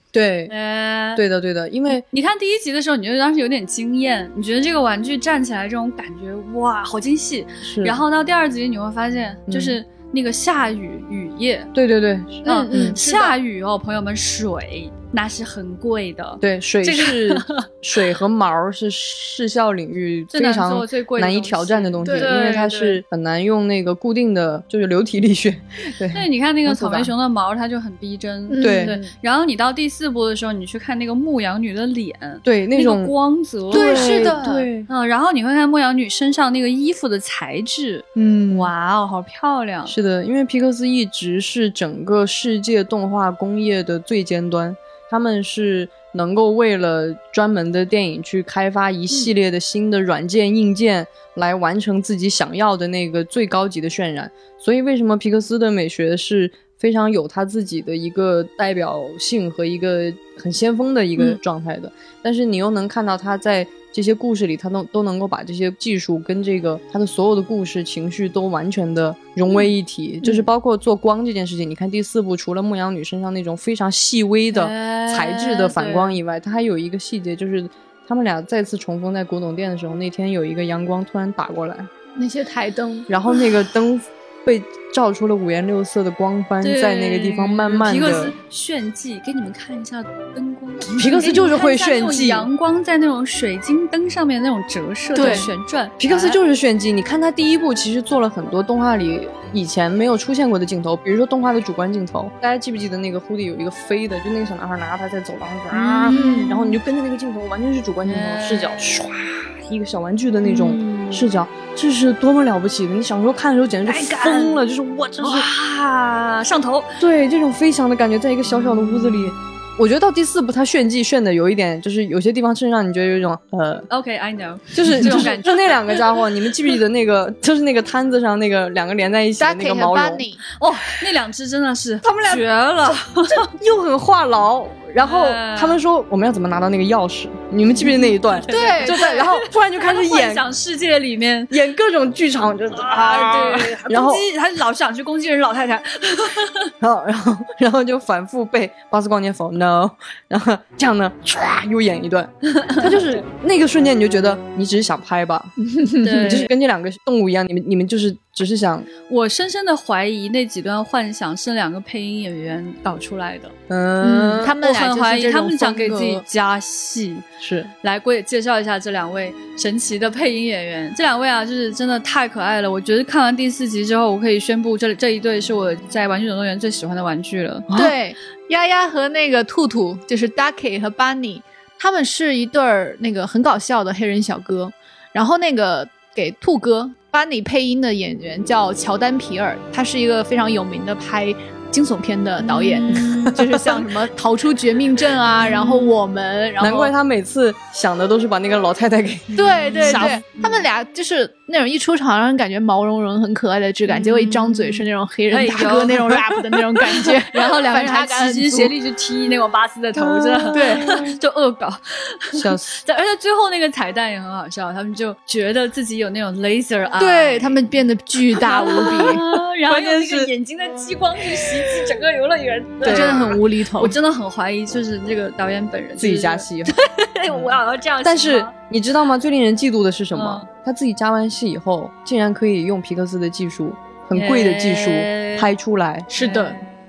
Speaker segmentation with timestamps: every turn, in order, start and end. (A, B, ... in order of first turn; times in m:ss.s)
0:00.1-0:00.5 A
0:00.5-0:01.2 B
0:01.2-0:02.0 A
0:02.1-0:11.7 B
0:07.6-0:08.0 A
0:09.5-0:09.8 A
0:11.7-0:13.0 A
0:12.4-0:17.7 B
0:12.5-0:13.3 C
0:16.4-0:27.1 A
0:20.3-0:23.0 B
0:22.0-0:22.3 C
0:26.1-0:39.9 B
0:28.5-0:29.0 C
0:28.6-0:29.0 A
0:32.4-0:33.1 A
0:33.7-0:34.9 A
0:33.7-0:34.6 C
0:38.2-0:38.7 A
0:39.9-1:21.9 A
1:14.5-1:16.2 B
1:22.2-1:23.1 C
1:23.1-1:28.4 A
1:26.6-1:36.4 B
1:30.9-1:32.5 A
1:35.2-1:35.5 C
1:35.2-1:55.5 A
1:45.7-1:46.7 B
1:46.1-1:46.7 C
1:48.0-1:48.7 B
1:50.4-1:51.3 B
1:53.9-1:54.6 B
1:55.2-1:57.0 B
1:57.0-2:03.9 A
2:03.9-2:06.2 B
2:04.7-2:10.2 A
2:09.4-2:10.4 C
2:10.6-2:13.5 B
2:12.0-2:20.4 A
2:15.0-2:15.8 B
2:17.8-2:21.5 B
2:18.5-2:19.3 C
2:21.5-2:24.2 A
2:22.7-2:26.7 B
2:26.8-2:38.9 A
2:32.6-2:33.2 B
2:35.8-2:36.4 C
2:36.0-2:36.5 B
2:39.1-2:43.5 B
2:43.7-2:44.6 A
2:44.0-2:46.2 C
2:44.5-2:47.3 B
2:47.4-2:47.7 A
2:47.8-2:57.7 B
2:57.7-2:58.0 A
2:57.7-3:16.9 C
3:12.4-3:13.4 B
3:13.0-3:13.8 A
3:15.4-3:16.0 B
3:16.6-3:20.2 A
3:19.4-3:28.7 C
3:19.7-3:20.6 B
3:23.9-3:26.2 B
3:26.9-3:37.6 B
3:30.3-3:31.1 A
3:30.5-3:31.1 C
3:32.4-3:32.8 A
3:37.0-3:39.2 C
3:38.4-3:48.5 B
3:39.7-3:40.3 A
3:42.8-3:43.4 A
3:42.8-3:44.0 C
3:46.0-3:46.7 A
3:48.0-3:56.1 A
3:50.1-3:50.5 B
3:54.1-3:55.5 B
3:56.1-3:56.6 C
3:56.2-3:56.7 B